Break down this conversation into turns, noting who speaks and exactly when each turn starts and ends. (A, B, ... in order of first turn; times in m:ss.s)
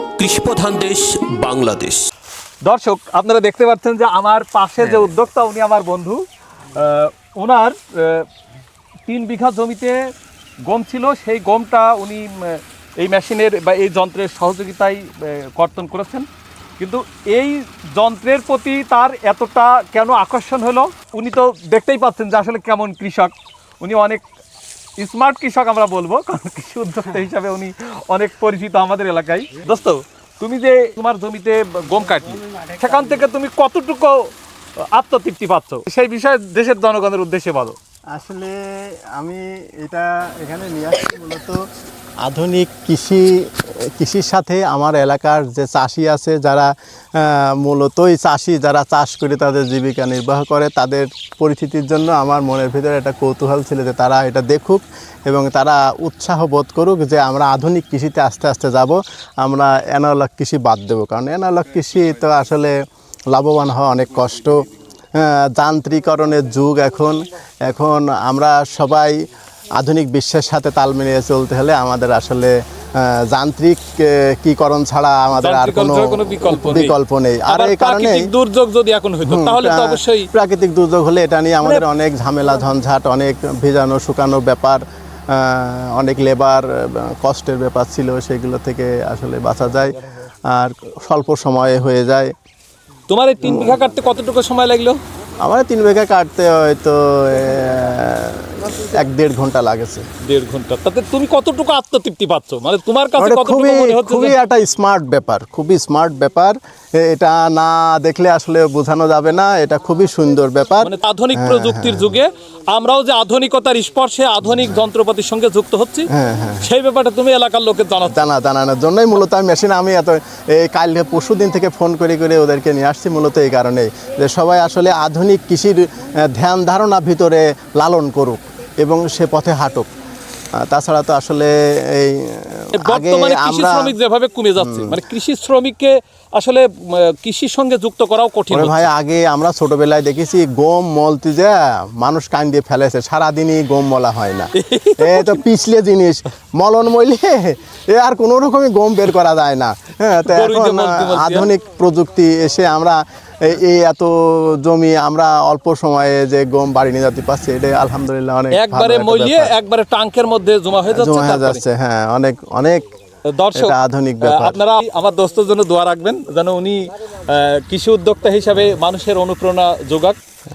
0:00.2-0:02.1 A
0:02.6-0:08.3 B
0:04.8-0:05.1 A
0:09.1-0:10.1 B
0:10.6-0:16.3 B
0:16.8-0:24.2 B
0:25.0-0:37.8 B
0:38.1-0:41.7 C
0:42.2-1:02.8 C
1:03.3-1:09.2 C
1:09.8-1:18.3 C
1:15.4-1:17.0 B
1:17.5-1:20.3 B
1:19.2-1:29.9 C
1:30.5-1:32.3 C
1:33.1-1:35.0 B
1:33.4-1:33.8 C
1:35.4-1:40.0 C
1:40.2-1:44.4 B
1:43.2-1:52.2 C
1:50.8-1:58.2 B
1:54.4-1:54.9 C
1:56.1-1:56.7 C
1:58.0-2:09.9 C
2:10.6-2:13.9 C
2:12.8-2:18.9 B
2:14.6-2:15.0 C
2:18.5-2:39.6 C
2:24.6-2:25.4 B
2:30.2-2:31.5 B
2:38.5-2:41.6 B
2:40.9-2:42.9 C
2:43.3-2:50.2 B
2:43.5-2:44.6 C